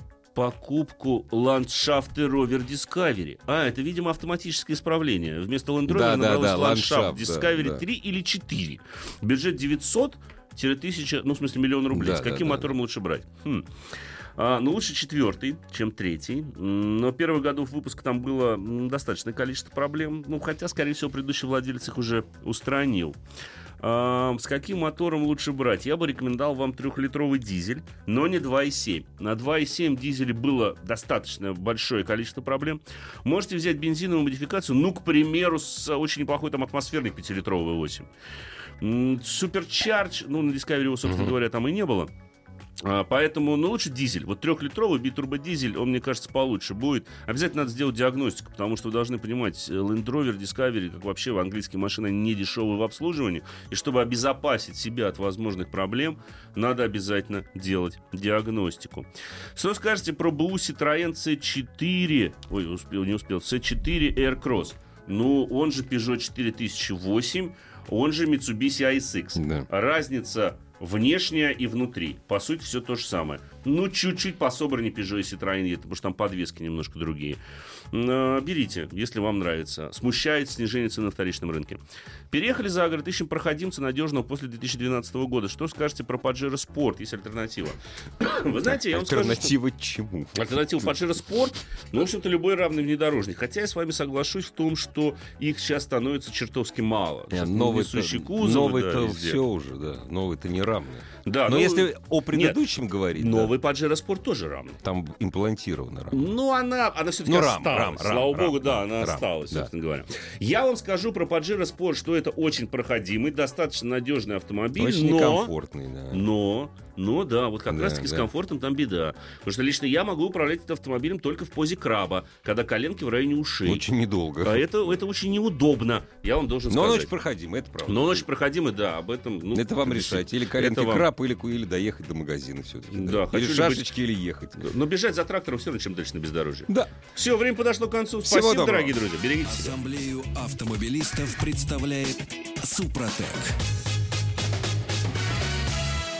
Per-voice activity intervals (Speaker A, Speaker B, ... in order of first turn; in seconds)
Speaker A: 0.3-13.7, 14.4-23.2, 23.8-38.1, 38.8-42.1, 42.8-77.4, 77.9-81.8, 82.3-89.5, 90.3-99.4, 101.2-102.6, 103.2-104.8, 106.1-115.5, 116.1-123.8, 124.4-127.1, 127.8-131.1, 132.9-133.9, 134.6-139.7
Speaker B: 5.9-7.8, 11.9-12.7, 41.0-41.3, 69.4-69.7, 88.6-91.0, 97.3-103.5, 104.8-106.3, 107.2-109.7, 114.8-116.2, 117.7-118.3, 123.6-125.0, 126.7-128.2, 129.5-134.6, 138.2-139.0
Speaker C: 139.4-143.6